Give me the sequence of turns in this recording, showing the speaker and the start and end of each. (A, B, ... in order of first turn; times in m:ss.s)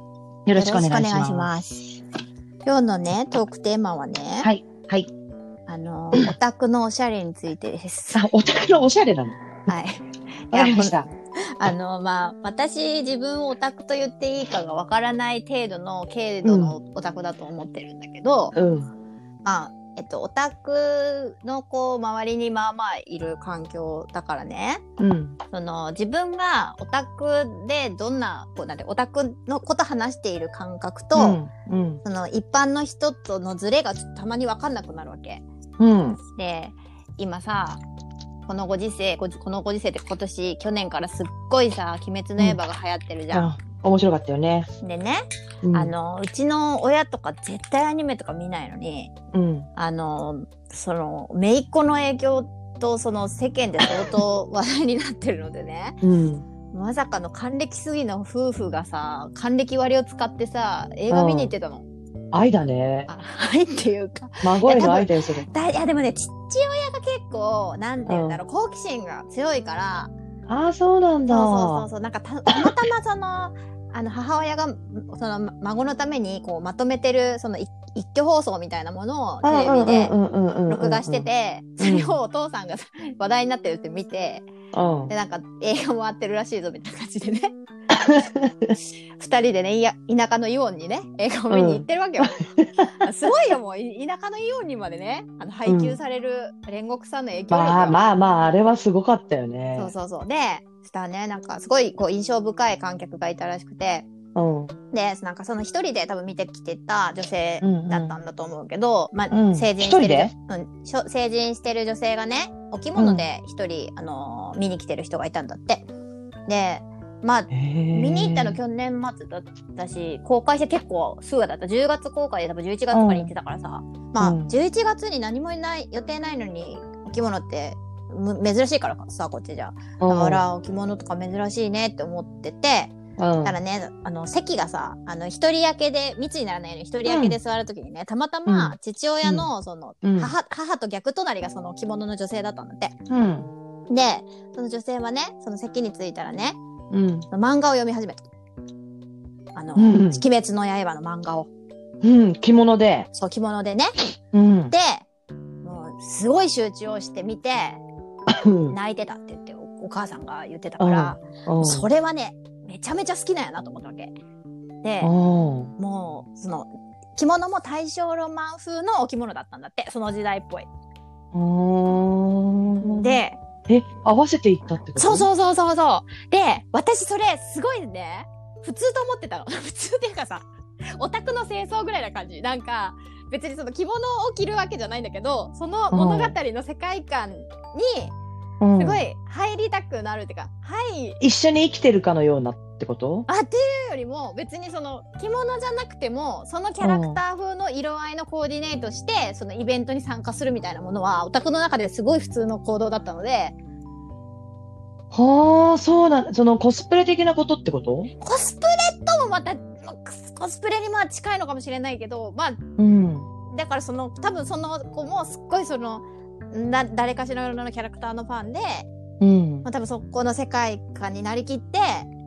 0:00.4-0:01.5 A
0:00.5-0:02.0 B
0:02.6-0:04.5 B
0:04.4-0:05.1 A
0:05.7-0:08.2 B
0:08.1-0:09.4 A
0:09.7-0:10.9 B
0:10.5-0:11.1 A
0:11.6-0:18.5 B
0:16.4-0:16.8 A
0:18.5-0:18.9 A
0:19.4-0:24.8 B
0:25.0-0:25.4 A
0:25.5-0:31.4 B
0:31.1-0:32.0 A
0:32.0-0:35.4 B
0:35.8-0:36.2 A
0:36.4-0:37.8 B
0:38.4-0:43.5 B
0:43.3-0:44.7 A
0:44.8-0:49.1 B
0:45.6-0:45.9 A
0:49.3-0:49.7 A
0:49.8-0:56.0 B
0:56.0-0:56.4 A
0:56.7-1:01.8 B
1:01.1-1:01.5 A
1:02.3-1:03.1 A
1:03.1-1:10.1 B
1:04.4-1:05.5 A
1:08.1-1:08.4 A
1:10.5-1:11.8 A
1:11.3-1:20.1 B
1:12.5-1:12.7 A
1:19.4-1:21.3 A
1:20.7-1:24.4 B
1:21.8-1:22.1 A
1:24.7-1:25.1 A
1:25.1-1:27.5 B
1:27.9-1:28.7 A
1:28.8-1:32.5 B
1:31.5-1:31.8 A
1:32.4-1:33.0 A
1:33.0-1:38.0 B
1:35.6-1:36.0 A
1:37.5-1:39.9 A
1:39.8-1:44.1 B
1:44.3-1:44.8 A
1:44.9-1:55.9 B
1:47.6-1:48.2 A
1:49.3-1:50.3 A
1:53.0-1:53.3 A
1:56.5-2:23.0 B
1:57.5-1:58.6 A
2:02.9-2:03.3 A
2:04.2-2:04.5 A
2:10.0-2:10.4 A
2:13.2-2:13.6 A
2:17.0-2:17.4 A
2:18.4-2:19.5 A
2:20.0-2:20.3 A
2:23.1-2:23.5 A
2:23.9-2:26.6 B
2:26.9-2:27.3 A
2:27.3-2:28.2 B
2:29.5-2:31.5 B
2:29.7-2:30.2 A
2:32.0-2:33.1 A
2:33.1-2:34.0 B
2:34.3-2:34.7 A
2:34.7-2:35.0 B
2:35.6-2:37.8 B
2:38.3-2:38.8 A
2:38.7-2:44.1 B
2:40.8-2:41.9 A
2:44.8-2:45.1 B
2:45.0-2:45.7 A
2:45.8-2:50.7 B
2:51.3-2:55.3 A
2:52.8-2:53.4 B
2:55.0-3:08.1 B
3:05.9-3:06.4 A
3:08.6-3:09.0 A
3:08.7-3:11.2 B
3:11.2-3:13.3 A
3:13.3-3:23.5 B
3:16.8-3:17.2 A
3:25.1-3:28.1 A
3:28.2-3:32.6 B
3:32.8-3:33.3 A
3:33.5-3:38.9 B
3:39.2-3:39.7 A
3:39.6-3:42.1 B